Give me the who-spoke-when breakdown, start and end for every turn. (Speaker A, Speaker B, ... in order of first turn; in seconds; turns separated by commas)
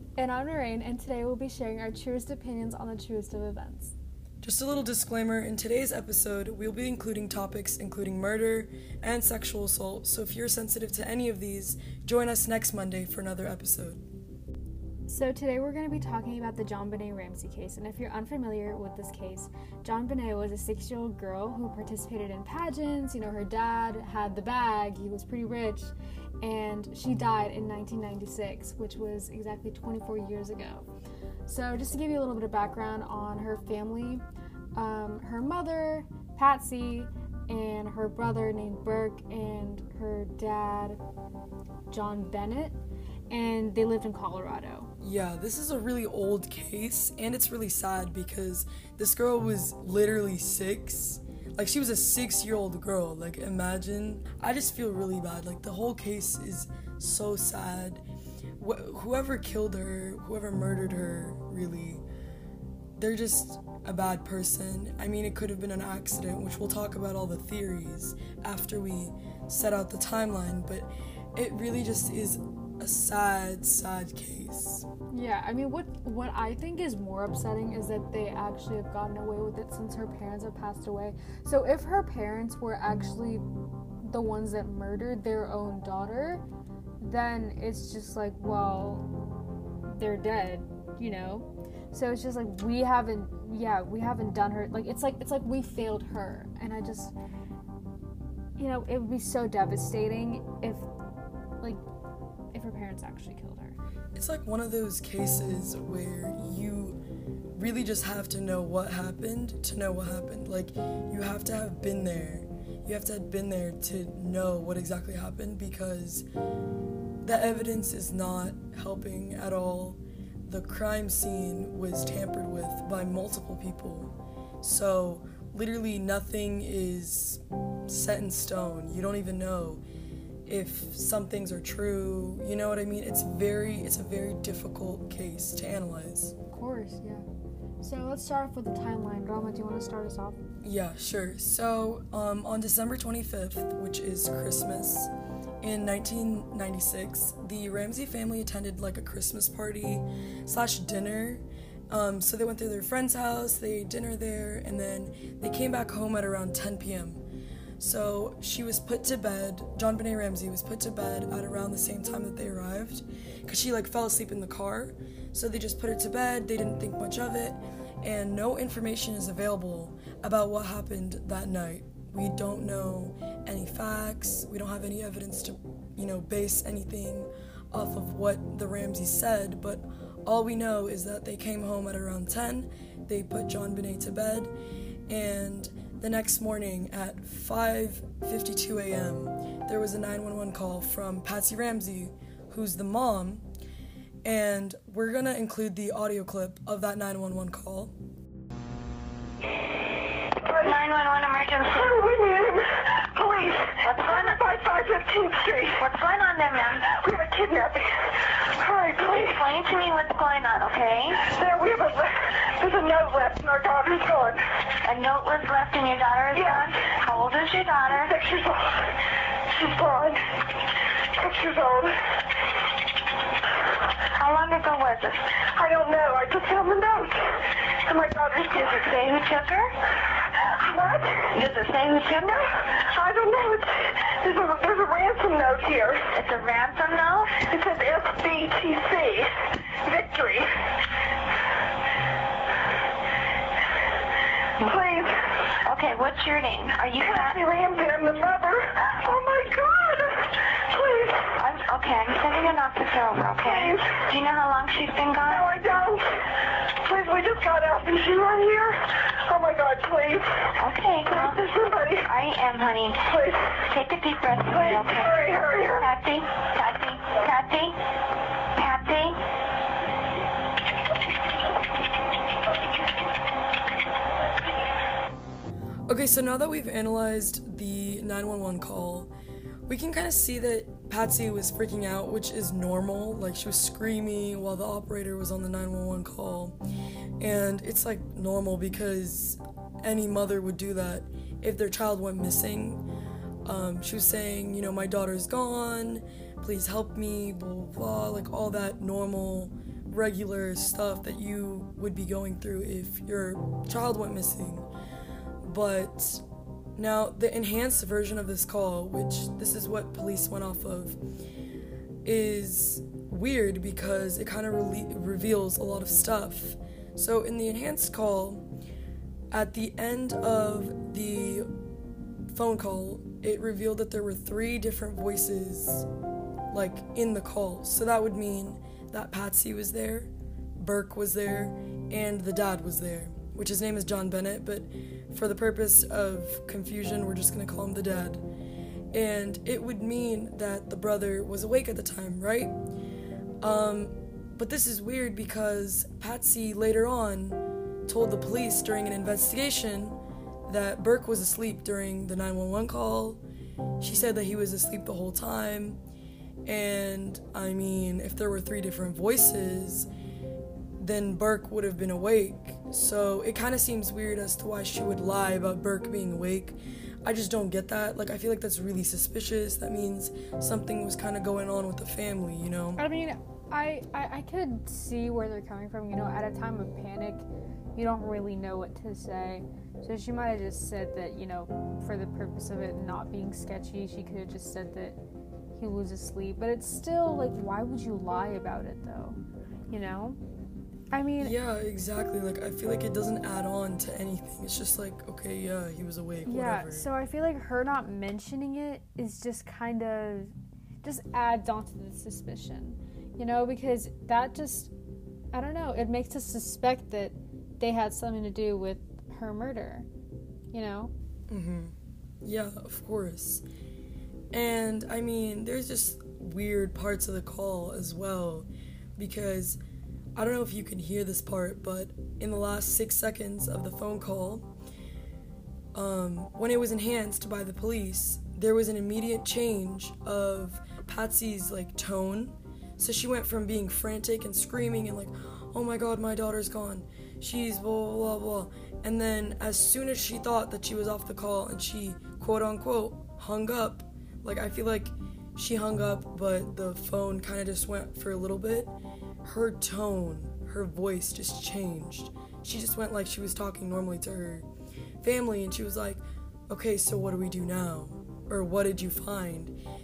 Speaker A: 0.2-4.0, Speaker B: 4.4-14.0, Speaker A: 15.1-30.9, Speaker A: 31.5-34.2, Speaker A: 34.8-41.0, Speaker A: 41.9-42.8, Speaker A: 43.3-44.9, Speaker B: 45.0-58.0, Speaker B: 58.6-62.0, Speaker B: 63.0-74.9, Speaker A: 75.1-83.5, Speaker A: 84.0-86.4, Speaker A: 87.0-89.1, Speaker A: 89.9-97.1, Speaker A: 98.6-100.9, Speaker A: 102.5-103.8, Speaker B: 104.2-107.0, Speaker B: 107.6-116.3, Speaker B: 117.2-129.8, Speaker B: 130.5-136.3, Speaker A: 136.5-137.2, Speaker A: 137.8-140.4, Speaker B: 140.6-157.2, Speaker B: 157.8-184.5, Speaker B: 185.1-193.4, Speaker B: 194.2-197.9, Speaker C: 200.4-200.7, Speaker D: 200.5-201.9, Speaker C: 201.7-205.8, Speaker D: 203.8-204.4, Speaker D: 205.8-206.9, Speaker C: 206.9-209.4, Speaker D: 209.0-211.3, Speaker C: 211.2-214.4, Speaker D: 214.8-218.1, Speaker C: 216.3-216.7, Speaker C: 217.9-220.4, Speaker C: 221.2-222.2, Speaker D: 224.2-225.4, Speaker C: 225.5-228.9, Speaker D: 228.5-229.7, Speaker C: 230.6-231.4, Speaker D: 231.3-232.4, Speaker C: 232.3-236.1, Speaker D: 236.1-237.4, Speaker C: 237.4-240.5, Speaker C: 244.6-245.5, Speaker D: 245.6-247.4, Speaker C: 247.0-251.4, Speaker D: 251.4-255.5, Speaker C: 253.4-254.1, Speaker C: 255.3-256.3, Speaker C: 256.8-262.1, Speaker D: 260.6-261.4, Speaker D: 262.0-263.1, Speaker C: 263.1-263.7, Speaker D: 263.7-267.8, Speaker C: 264.4-265.9, Speaker D: 268.6-269.2, Speaker B: 275.9-279.1, Speaker B: 279.7-286.6, Speaker B: 287.2-292.9, Speaker B: 293.4-304.7, Speaker B: 305.4-306.2, Speaker B: 306.8-311.0, Speaker B: 312.1-318.5, Speaker B: 319.3-321.5, Speaker B: 322.3-325.9, Speaker B: 326.5-338.2, Speaker B: 338.9-342.6, Speaker B: 343.4-353.2, Speaker B: 353.8-355.8, Speaker B: 356.5-359.9, Speaker B: 360.8-372.8, Speaker A: 372.8-377.2, Speaker A: 377.8-385.0, Speaker A: 385.6-390.2, Speaker A: 390.9-391.4, Speaker B: 391.2-396.9, Speaker A: 396.3-404.7, Speaker A: 405.3-409.9, Speaker A: 410.5-410.9, Speaker B: 411.3-413.4, Speaker B: 414.3-419.6, Speaker B: 420.2-424.5, Speaker B: 425.8-448.7, Speaker B: 449.2-454.5, Speaker B: 455.0-459.6